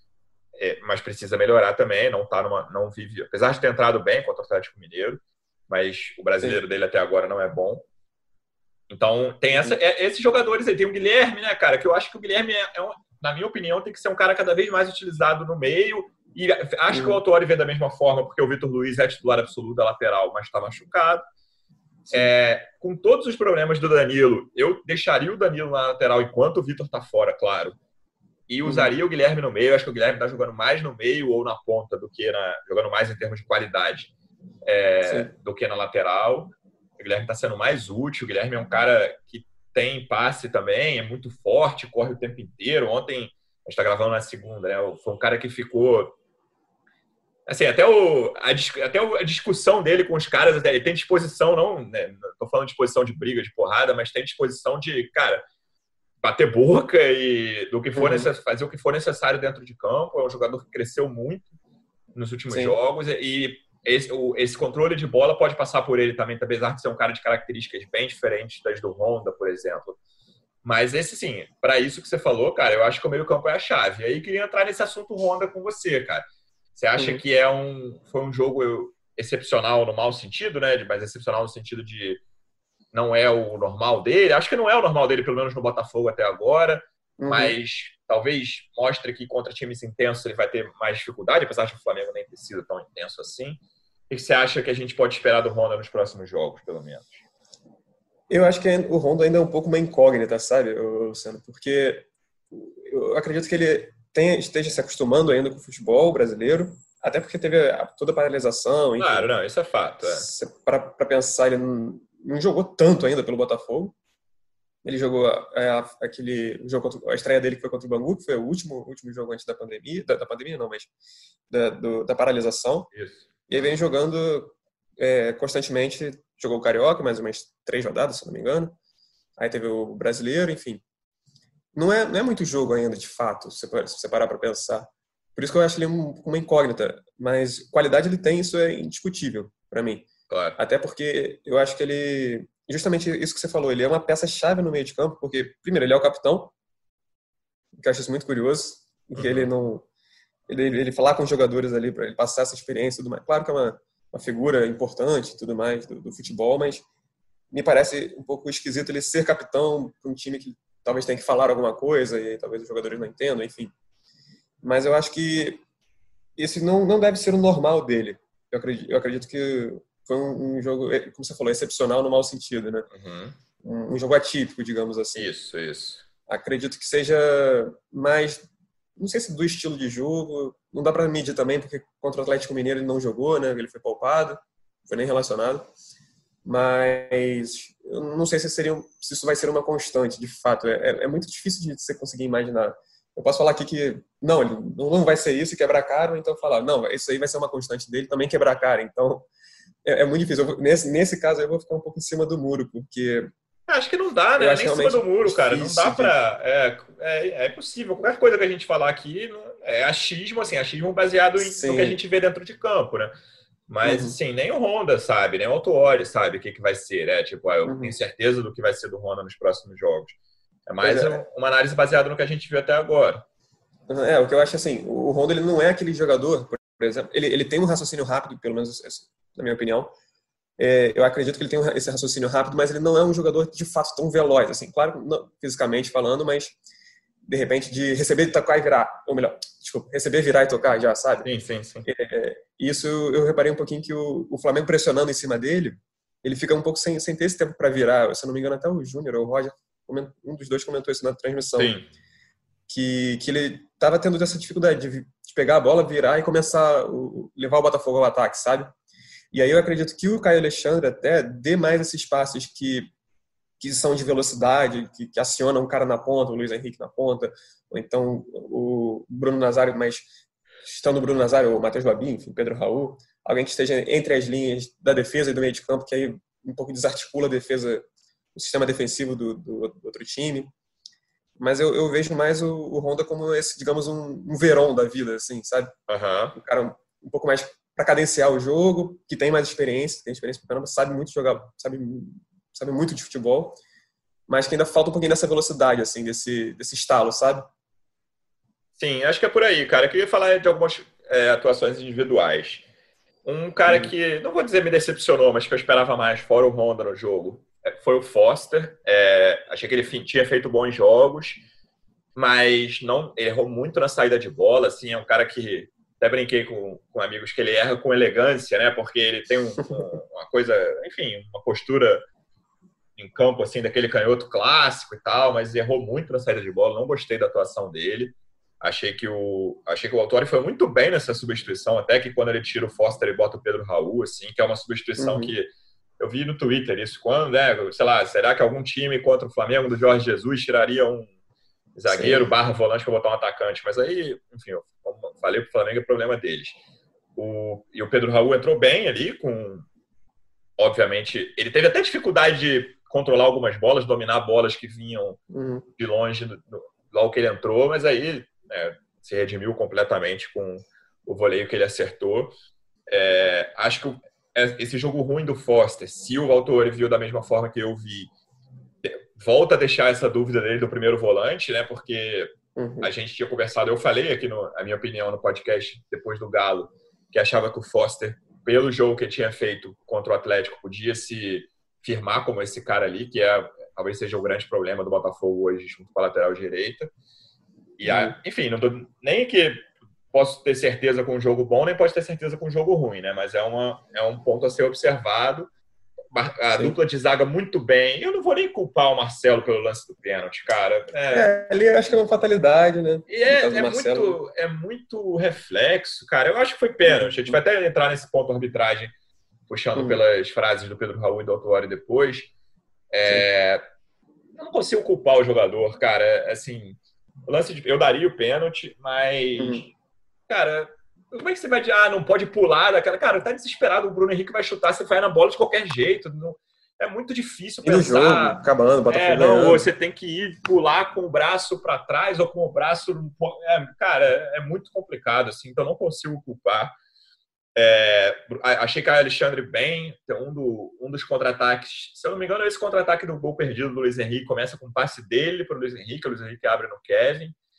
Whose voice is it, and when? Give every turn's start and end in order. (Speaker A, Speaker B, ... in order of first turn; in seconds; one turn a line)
Speaker A: 0.6-7.9
Speaker A: 8.9-21.2
Speaker B: 16.9-17.2
Speaker A: 22.1-27.8
Speaker A: 28.5-34.1
Speaker B: 28.6-28.9
Speaker A: 34.6-46.2
Speaker B: 35.0-35.3
Speaker A: 47.5-55.4
Speaker A: 56.2-61.5
Speaker B: 58.0-58.3
Speaker A: 62.1-70.0
Speaker B: 62.5-62.8
Speaker A: 70.6-82.2
Speaker B: 77.0-77.2
Speaker A: 82.9-97.2
Speaker B: 87.2-87.5
Speaker B: 98.3-109.3
Speaker A: 109.0-110.3
Speaker B: 110.0-114.0
Speaker B: 114.8-120.9
Speaker B: 121.5-122.9
Speaker A: 122.9-123.2
Speaker B: 123.5-128.8
Speaker B: 129.4-130.8
Speaker B: 131.7-146.5
Speaker A: 140.3-140.6
Speaker B: 147.8-149.9
Speaker A: 149.2-149.5
Speaker B: 150.5-156.8
Speaker B: 157.5-163.7
Speaker B: 164.6-165.6
Speaker B: 166.4-172.9
Speaker A: 172.9-173.4
Speaker B: 173.6-175.3
Speaker A: 175.2-176.0
Speaker B: 176.3-178.4
Speaker B: 179.0-185.7
Speaker B: 186.4-199.3
Speaker B: 199.8-203.3
Speaker A: 203.7-213.1
Speaker B: 204.4-206.2
Speaker B: 211.4-212.0
Speaker A: 213.7-223.2
Speaker B: 213.8-214.2
Speaker B: 217.7-217.9
Speaker B: 220.8-221.2
Speaker B: 223.9-229.9
Speaker B: 230.6-236.6
Speaker B: 237.3-241.3
Speaker A: 241.2-241.9
Speaker B: 241.8-251.8
Speaker A: 251.6-251.9
Speaker B: 252.7-258.7
Speaker B: 259.3-262.9
Speaker B: 263.6-270.1
Speaker B: 270.6-280.5
Speaker B: 281.4-285.7
Speaker A: 285.9-286.4
Speaker B: 286.4-293.6
Speaker B: 294.3-297.5
Speaker A: 298.8-302.7
Speaker A: 303.2-311.4
Speaker A: 312.1-322.1
Speaker A: 323.0-335.5
Speaker B: 335.0-335.3
Speaker A: 336.0-341.1
Speaker A: 341.8-346.6
Speaker B: 341.9-342.3
Speaker A: 347.2-349.7
Speaker A: 350.6-355.2
Speaker B: 355.3-355.7
Speaker A: 355.8-362.4
Speaker A: 362.9-368.1
Speaker A: 368.8-386.9
Speaker B: 372.6-372.9
Speaker A: 387.8-395.5
Speaker B: 387.8-388.1
Speaker A: 396.1-401.3
Speaker B: 401.1-404.2
Speaker A: 403.1-408.9
Speaker B: 406.9-407.4
Speaker A: 409.5-412.3
Speaker A: 412.9-413.6
Speaker A: 414.4-419.7
Speaker B: 419.4-419.7
Speaker A: 420.3-436.8
Speaker B: 427.6-429.7
Speaker A: 437.6-447.4